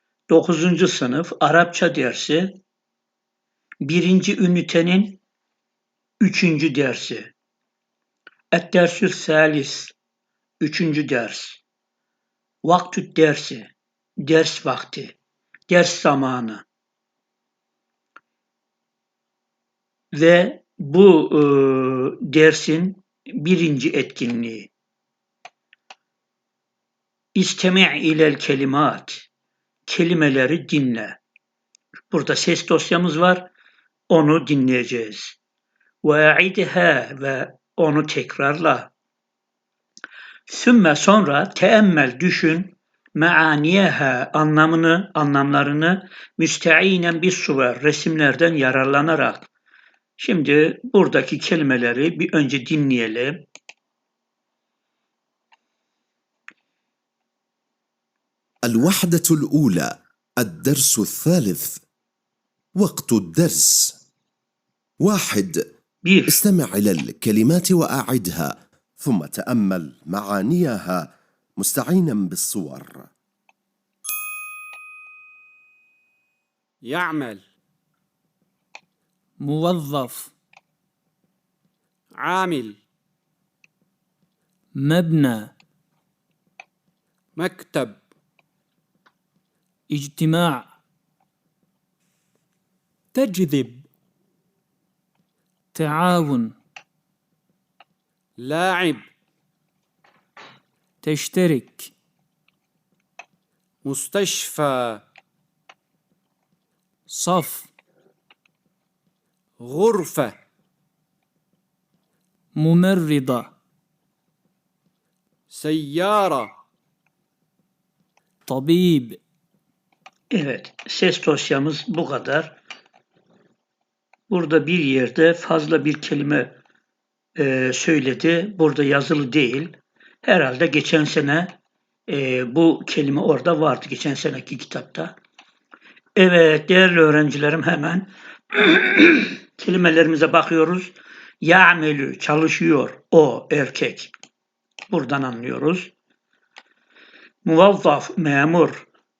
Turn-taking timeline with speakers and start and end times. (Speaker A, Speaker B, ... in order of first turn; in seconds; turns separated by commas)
Speaker A: 0.3-2.6, Speaker A: 3.8-5.2, Speaker A: 6.2-7.3, Speaker A: 8.5-9.9, Speaker A: 10.6-11.6, Speaker A: 12.6-15.1, Speaker A: 15.7-16.6, Speaker A: 20.1-24.7, Speaker A: 27.3-29.3, Speaker A: 29.9-31.2, Speaker A: 32.1-33.5, Speaker A: 34.1-35.4, Speaker A: 36.0-38.9, Speaker A: 40.5-49.5, Speaker A: 50.2-53.5, Speaker B: 58.6-61.8, Speaker B: 62.8-64.0, Speaker B: 65.0-65.6, Speaker A: 66.0-66.4, Speaker B: 66.3-73.1, Speaker C: 76.8-77.4, Speaker D: 79.4-80.3, Speaker C: 82.1-82.8, Speaker D: 84.7-85.5, Speaker C: 87.3-88.0, Speaker D: 89.9-90.7, Speaker C: 93.2-93.8, Speaker D: 93.2-93.5, Speaker D: 95.7-96.5, Speaker C: 98.4-99.1, Speaker D: 101.0-101.9, Speaker C: 103.8-105.0, Speaker D: 107.1-107.7, Speaker C: 109.6-110.3, Speaker D: 112.5-113.5, Speaker C: 115.5-116.5, Speaker D: 118.5-119.2, Speaker A: 120.3-122.5, Speaker A: 124.3-126.6, Speaker A: 127.3-131.5, Speaker A: 132.1-135.1, Speaker A: 136.2-144.1, Speaker A: 144.9-145.9, Speaker A: 147.4-148.9